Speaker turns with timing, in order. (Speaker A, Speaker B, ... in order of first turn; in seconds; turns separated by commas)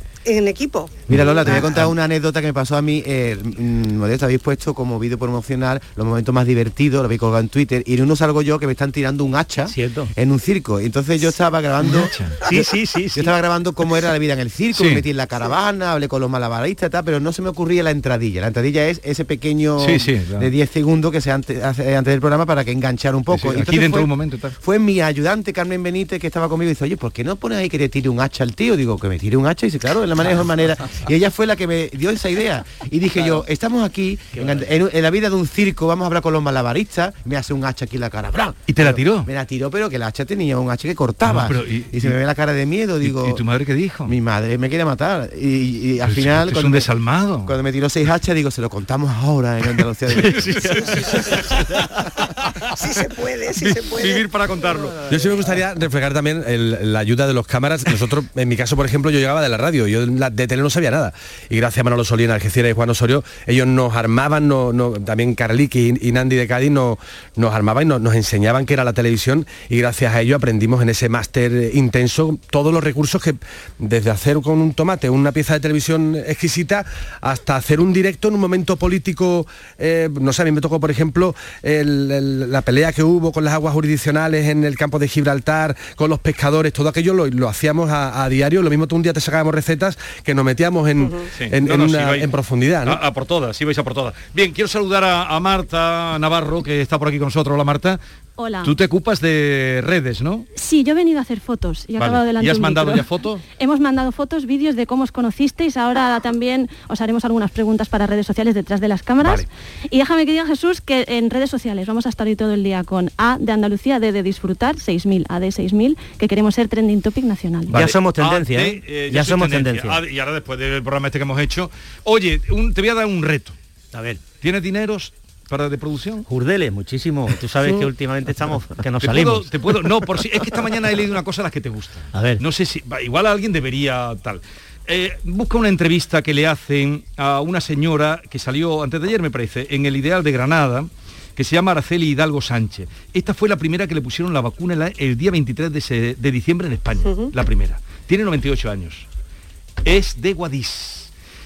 Speaker A: 0.2-1.6, Speaker B: 1.1-12.1, Speaker C: 9.7-10.1, Speaker C: 12.5-13.3, Speaker B: 13.2-43.4, Speaker D: 14.8-15.0, Speaker D: 19.8-20.5, Speaker D: 23.3-24.6, Speaker C: 34.3-34.7, Speaker D: 38.7-39.3, Speaker D: 41.2-42.1, Speaker D: 43.0-44.2, Speaker B: 44.1-46.9, Speaker D: 46.0-47.5, Speaker B: 47.5-50.9, Speaker D: 50.1-52.7, Speaker A: 52.8-54.3, Speaker D: 53.5-55.0, Speaker E: 55.1-93.0, Speaker A: 91.0-91.3, Speaker D: 91.3-92.3, Speaker D: 92.8-98.0, Speaker F: 98.4-98.7, Speaker D: 98.6-100.5, Speaker F: 100.5-117.8, Speaker D: 102.0-103.4, Speaker C: 117.7-120.0, Speaker D: 117.7-123.6, Speaker C: 123.9-124.2, Speaker D: 124.4-126.2, Speaker C: 126.3-129.5, Speaker D: 129.0-149.1, Speaker C: 132.1-132.4, Speaker A: 147.0-147.3, Speaker D: 149.8-151.1